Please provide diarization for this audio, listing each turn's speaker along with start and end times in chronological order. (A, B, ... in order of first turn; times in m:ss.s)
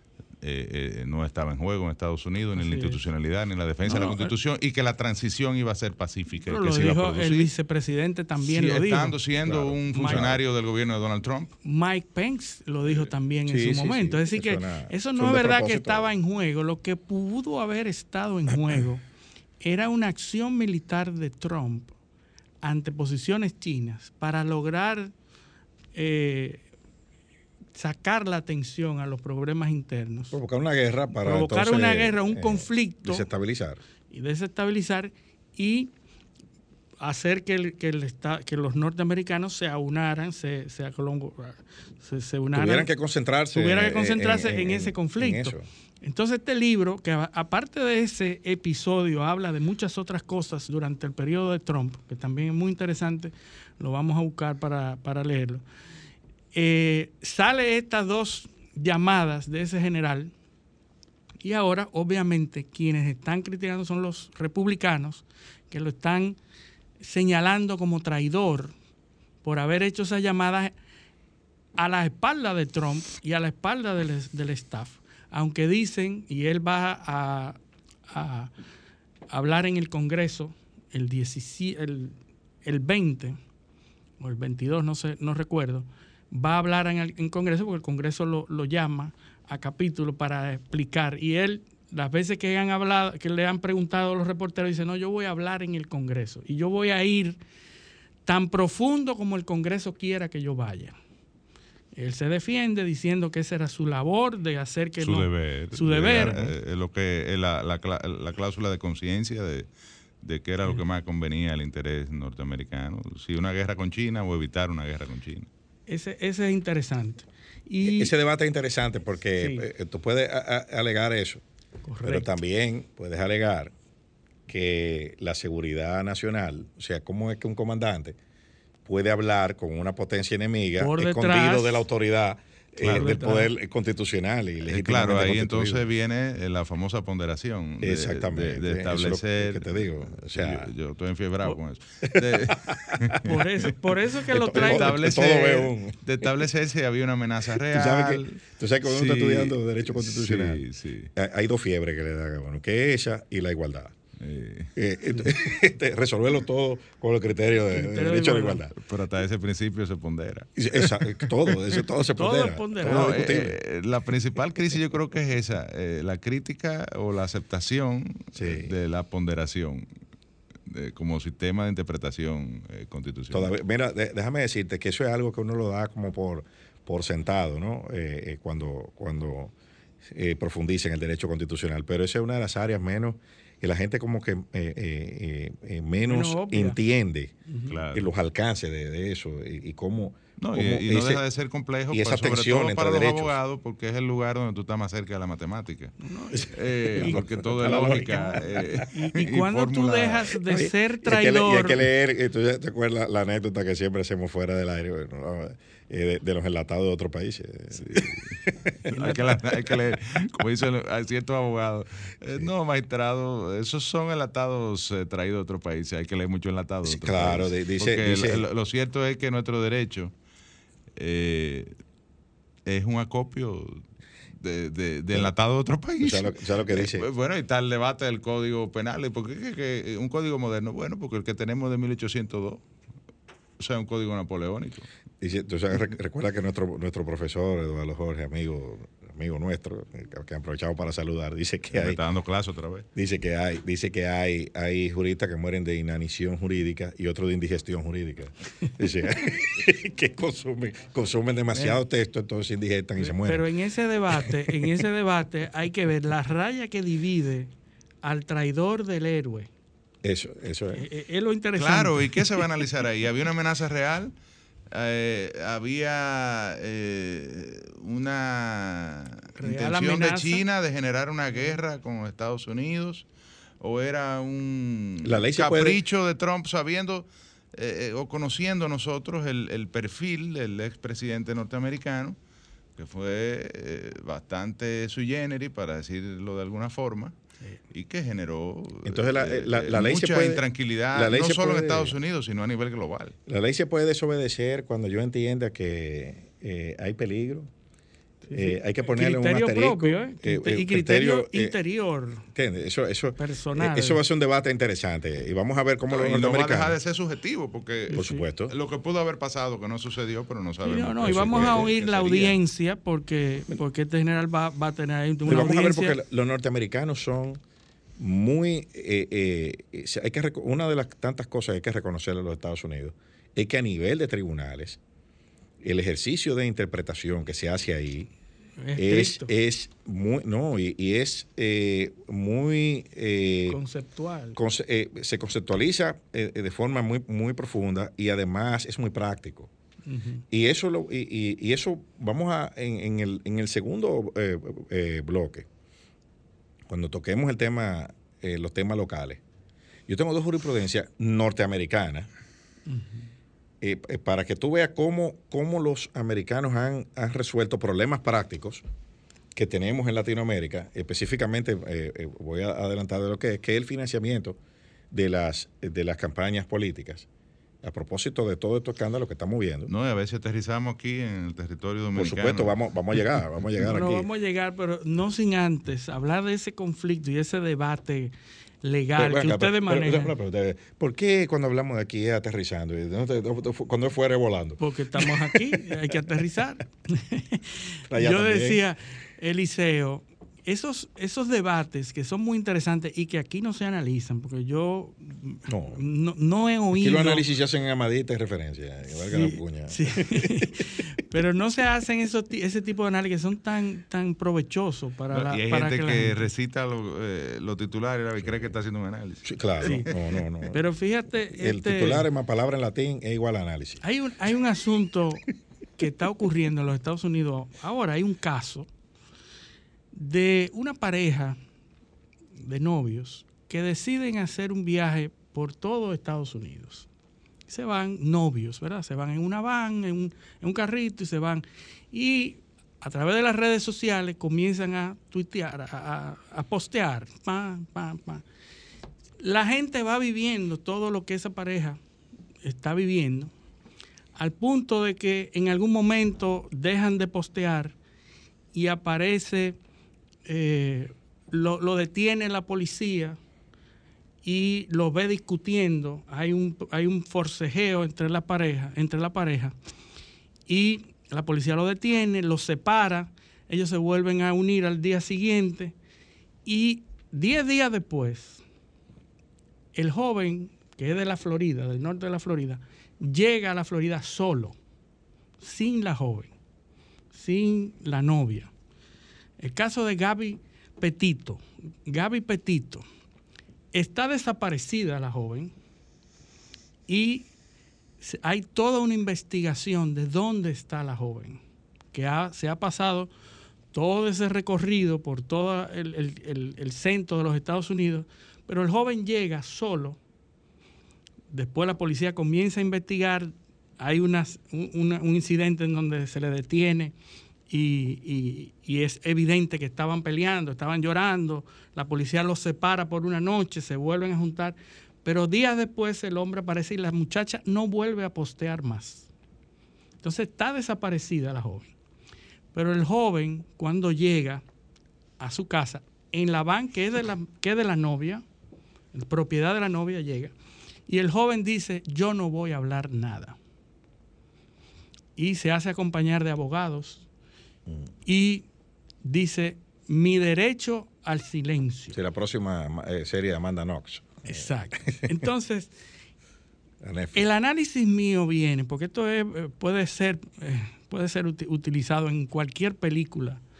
0:00.4-0:07.5 A
0:02.5-0:03.0 B
0:03.8-0:04.3 B
0:06.4-0:09.2 B
0:08.4-0:11.6 A
0:09.4-0:10.4 C
0:09.9-0:10.3 B
0:11.6-0:19.0 B
0:13.5-0:16.1 C
0:19.6-0:21.9 B
0:22.6-0:25.1 B
0:25.9-0:26.6 B
0:27.7-0:30.4 B
0:30.3-0:33.8 C
0:31.2-0:33.3 B
0:34.1-0:35.9 B
0:37.0-0:42.9 B
0:42.5-0:45.6 C
0:43.5-0:55.6 B
0:56.5-1:00.3 B
1:01.4-1:06.4 B
1:07.0-1:08.7 B
1:09.4-1:10.7 B
1:11.8-1:18.5 B
1:19.3-1:23.4 B
1:24.2-1:37.4 B
1:38.2-1:41.0 B
1:41.9-1:46.4 B
1:45.0-1:49.7 A
1:46.2-1:46.5 C
1:50.2-1:55.5 A
1:55.9-1:58.1 B
1:57.8-2:01.4 C
1:59.4-1:59.7 B
2:01.8-2:02.3 B
2:02.0-2:03.7 C
2:04.5-2:08.2 C
2:08.8-2:15.9 C
2:10.8-2:11.8 B
2:12.8-2:13.5 B
2:12.8-2:13.1 A
2:14.7-2:23.7 A
2:17.8-2:20.7 C
2:22.0-2:23.2 C
2:23.2-2:25.0 B
2:24.3-2:26.3 C
2:24.5-2:31.1 A
2:27.6-2:30.6 C
2:31.1-2:33.9 C
2:34.2-2:34.7 A
2:34.8-2:38.7 C
2:37.7-2:38.7 B
2:38.7-2:41.8 A
2:40.6-2:43.6 C
2:42.2-2:43.3 B
2:42.8-2:49.9 A
2:48.3-2:48.7 C
2:50.7-2:53.5 A
2:53.3-3:07.3 C
3:06.0-3:06.8 B
3:07.5-3:07.7 B
3:07.7-3:08.1 A
3:07.9-3:11.2 C
3:10.4-3:16.0 A
3:11.9-3:13.4 C
3:16.0-3:17.2 B
3:16.3-3:18.8 C
3:16.5-3:20.3 A
3:18.9-3:21.8 B
3:20.4-3:30.0 C
3:27.7-3:40.1 A
3:28.9-3:29.2 B
3:36.8-3:38.4 C
3:41.0-3:41.8 A
3:42.6-3:43.8 A
3:44.4-3:52.6 A
3:46.0-3:47.0 C
3:53.6-3:54.9 A
3:55.2-4:02.0 C
4:01.7-4:02.8 A
4:02.9-4:13.5 C
4:11.5-4:11.8 B
4:13.0-4:17.5 B
4:14.2-4:14.7 C
4:18.0-4:19.5 B
4:20.0-4:20.9 C
4:20.7-4:22.4 B
4:21.6-4:24.1 A
4:24.7-4:33.1 A
4:29.3-4:30.4 B
4:33.6-4:42.2 A
4:35.0-4:35.8 C
4:42.8-4:47.2 A
4:47.7-4:53.2 A
4:48.8-4:50.4 C
4:50.9-4:52.0 C
4:53.3-4:57.5 C
4:58.2-5:02.3 B
4:58.3-5:01.6 C
5:02.3-5:06.8 C
5:03.2-5:04.0 B
5:05.9-5:12.4 A
5:07.9-5:08.2 B
5:07.9-5:08.6 C
5:10.6-5:16.0 B
5:11.0-5:11.7 C
5:15.2-5:17.4 C
5:18.0-5:24.8 C
5:25.6-5:28.1 C
5:28.6-5:29.3 B
5:28.8-5:33.6 C
5:33.5-5:34.4 B
5:34.4-5:39.5 C
5:39.9-5:40.2 B
5:40.3-5:45.5 C
5:46.7-5:49.2 C
5:49.9-5:52.1 C
5:52.7-5:53.1 B
5:53.6-5:58.6 C
5:59.3-6:04.4 C
6:04.9-6:07.1 C
6:07.6-6:09.7 C
6:09.7-6:12.6 A
6:11.9-6:14.1 C
6:13.6-6:20.1 B
6:19.0-6:26.0 C
6:24.6-6:37.3 B
6:27.9-6:28.6 C
6:35.5-6:35.8 C
6:36.7-6:40.5 C
6:38.9-6:46.2 B
6:45.1-6:50.0 A
6:49.2-6:50.6 C
6:49.6-6:49.9 B
6:50.5-6:52.1 B
6:51.3-6:53.8 C
6:53.8-6:55.2 B
6:55.8-6:58.7 B
6:59.9-7:01.4 B
7:02.4-7:06.9 B
7:07.5-7:18.2 B
7:19.2-7:21.8 B
7:22.4-7:23.3 B
7:24.1-7:27.8 B
7:28.5-7:29.6 B
7:30.2-7:33.2 B
7:34.2-7:39.5 B
7:40.5-7:45.7 B
7:46.4-7:48.4 B
7:49.7-7:54.6 B
7:55.4-7:56.3 B
7:57.1-7:58.5 B
7:59.4-8:02.8 B
8:03.7-8:05.5 B
8:06.9-8:07.3 B
8:08.0-8:11.4 B
8:11.9-8:13.1 B
8:13.7-8:20.0 B
8:21.3-8:26.9 B
8:27.5-8:39.1 B
8:40.0-8:41.7 B
8:42.5-8:44.4 B
8:45.2-8:48.2 B
8:48.9-8:50.3 B
8:50.9-8:53.4 B
8:55.2-8:57.0 B
8:58.0-8:58.4 B
8:59.0-9:02.0 B
9:01.9-9:05.2 C
9:04.2-9:05.8 B
9:06.8-9:07.2 C
9:07.1-9:13.4 B